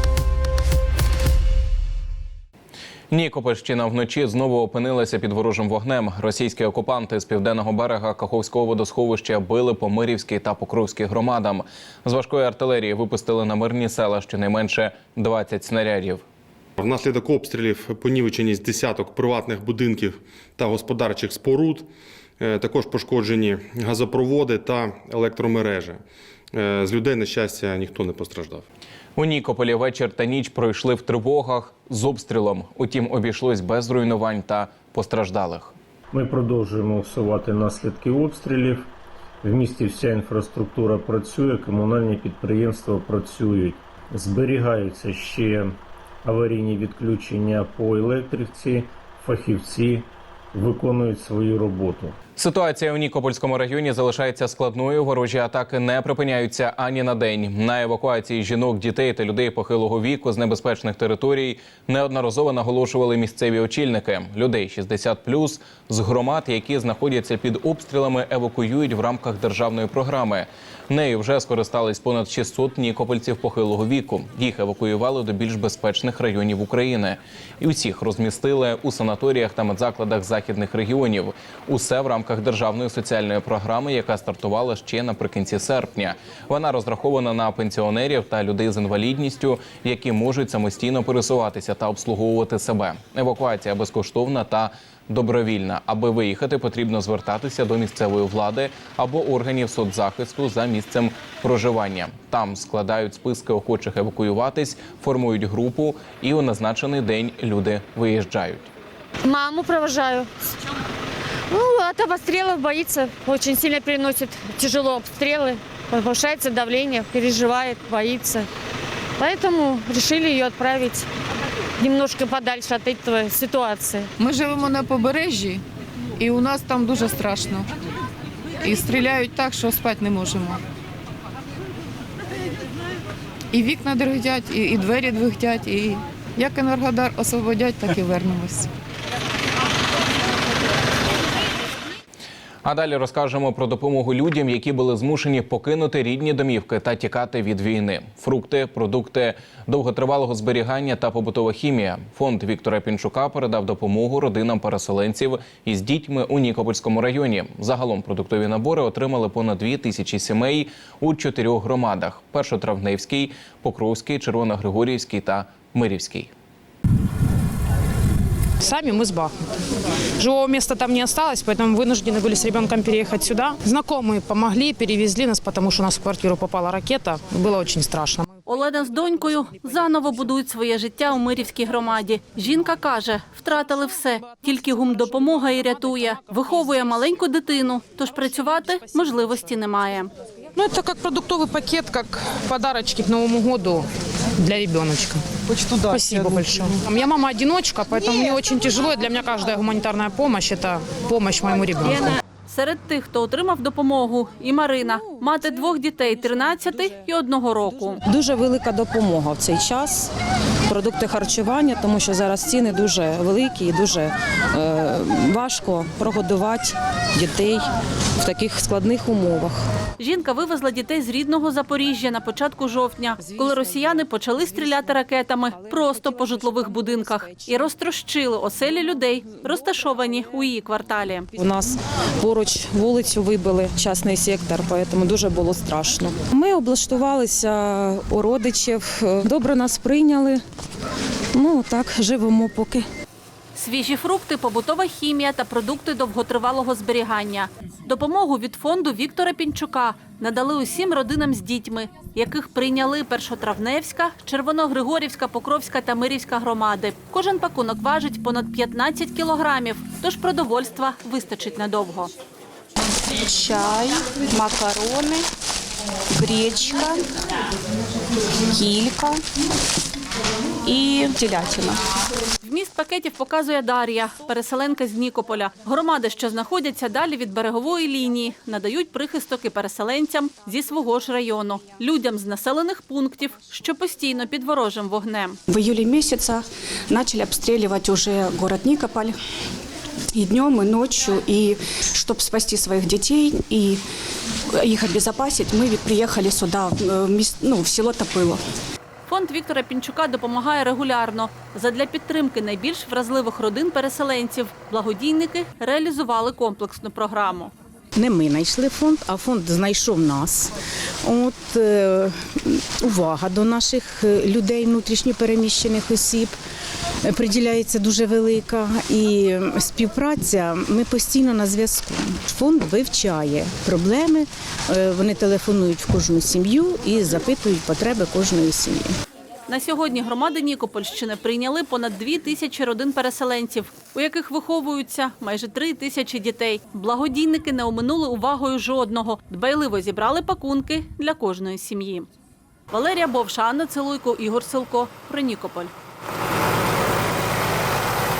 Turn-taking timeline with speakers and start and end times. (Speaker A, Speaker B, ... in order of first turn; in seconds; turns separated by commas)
Speaker A: 3.1-16.2, Speaker B: 16.8-21.9, Speaker B: 22.4-26.0, Speaker B: 26.5-28.7, Speaker A: 29.2-35.8, Speaker C: 36.1-38.9, Speaker C: 39.4-45.7, Speaker C: 46.2-52.2, Speaker A: 52.4-108.7, Speaker D: 109.2-110.3, Speaker D: 111.5-118.5, Speaker D: 119.2-121.1, Speaker D: 121.8-124.1, Speaker E: 124.2-125.6, Speaker E: 126.2-127.7, Speaker E: 128.6-130.6, Speaker E: 133.5-138.7, Speaker A: 142.6-166.3, Speaker F: 168.6-169.5, Speaker F: 170.2-178.2, Speaker G: 178.5-190.1, Speaker F: 190.6-193.9, Speaker F: 194.4-195.2, Speaker F: 195.8-202.2, Speaker G: 201.8-208.0, Speaker H: 208.0-210.1, Speaker H: 210.7-217.7, Speaker H: 218.2-219.6, Speaker G: 220.0-231.3, Speaker H: 226.7-227.4, Speaker H: 231.4-240.4, Speaker H: 241.3-242.9, Speaker G: 243.6-262.1, Speaker I: 263.2-265.2, Speaker I: 266.1-267.0, Speaker I: 268.5-269.2, Speaker I: 270.6-271.8, Speaker G: 272.4-285.4, Speaker I: 285.5-289.2, Speaker I: 290.1-293.8, Speaker I: 294.5-298.4, Speaker G: 299.1-307.5, Speaker J: 307.9-310.5, Speaker J: 311.1-316.3, Speaker J: 317.1-328.9, Speaker G: 329.5-342.1, Speaker G: 342.7-345.7